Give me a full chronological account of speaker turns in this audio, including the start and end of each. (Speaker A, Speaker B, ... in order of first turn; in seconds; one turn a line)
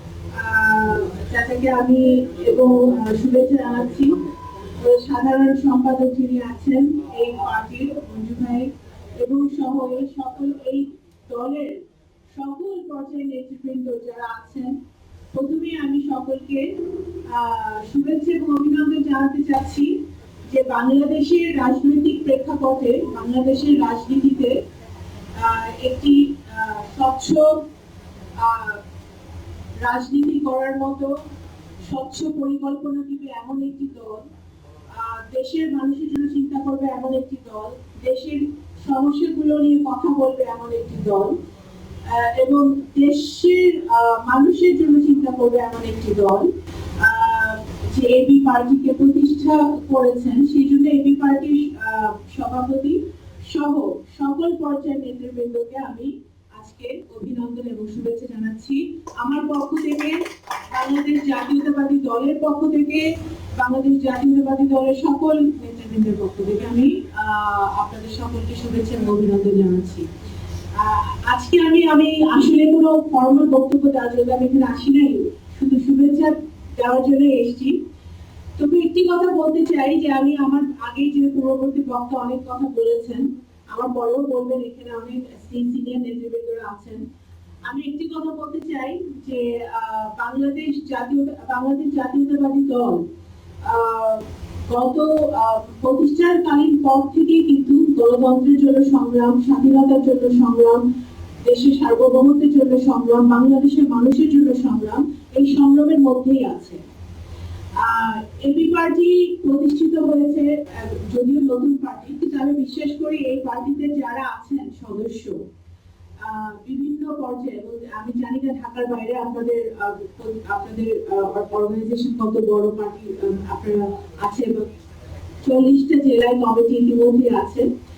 Speaker A: 0.3-14.8
Speaker A: 15.3-24.6
Speaker A: 25.4-27.6
Speaker A: 28.4-28.8
Speaker A: 29.8-31.1
Speaker A: 31.8-34.2
Speaker A: 34.9-41.4
Speaker A: 42.1-46.5
Speaker A: 47.0-70.1
Speaker A: 70.7-77.8
Speaker A: 78.6-87.0
Speaker A: 87.7-93.0
Speaker A: 93.6-100.9
Speaker A: 101.4-106.8
Speaker A: 107.8-115.4
Speaker A: 116.2-124.7
Speaker A: 125.4-127.7